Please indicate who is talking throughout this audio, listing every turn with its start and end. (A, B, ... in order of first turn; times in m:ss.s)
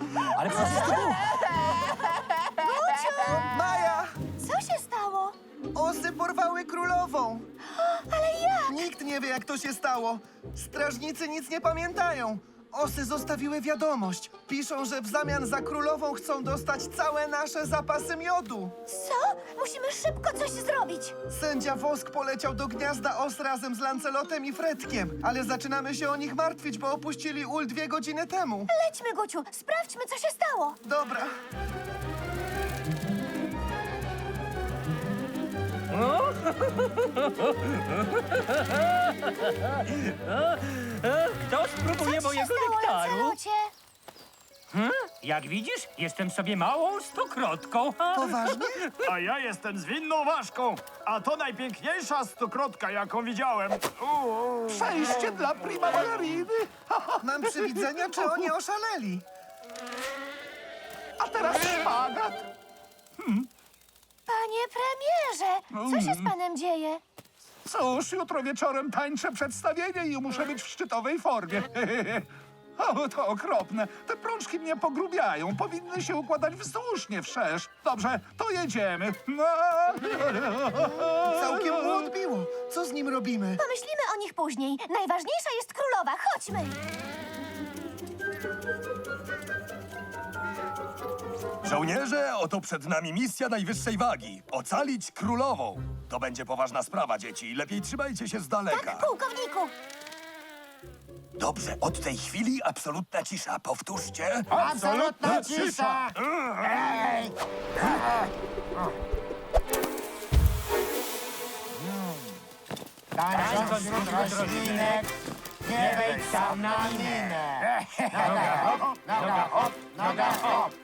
0:00.2-0:01.1 A
0:00.4-0:01.2 B
0:02.5-0:03.5 B
0:03.5-0:04.1 A
0:04.4-0:05.3 B
0:05.7-0:07.5 A
0:07.7-0:08.8 B
0:08.7-0:18.7 A
0:18.9-0:21.1 B
0:21.3-0:28.7 A
0:28.7-0:30.8 B
0:30.8-0:31.3 A
0:35.9-0:43.3 C
0:42.0-0:43.7 B
0:44.7-0:49.1 C
0:48.1-0:48.9 A
0:49.0-0:54.7 D
0:54.7-0:58.5 E
0:57.2-0:59.2 A
1:01.2-1:02.5 E
1:03.2-1:03.5 E
1:04.3-1:07.0 B
1:05.7-1:06.3 E
1:07.6-1:22.0 E
1:21.3-1:23.6 A
1:23.6-1:26.8 B
1:31.6-1:39.1 F
1:38.7-1:39.7 B
1:41.4-1:44.5 F
1:44.6-1:46.1 G
1:44.6-1:45.4 D
1:53.3-1:55.0 C
1:53.3-1:54.9 G
1:55.7-1:58.4 G
1:58.2-1:58.6 C
1:59.2-1:59.4 C
1:59.7-2:00.6 G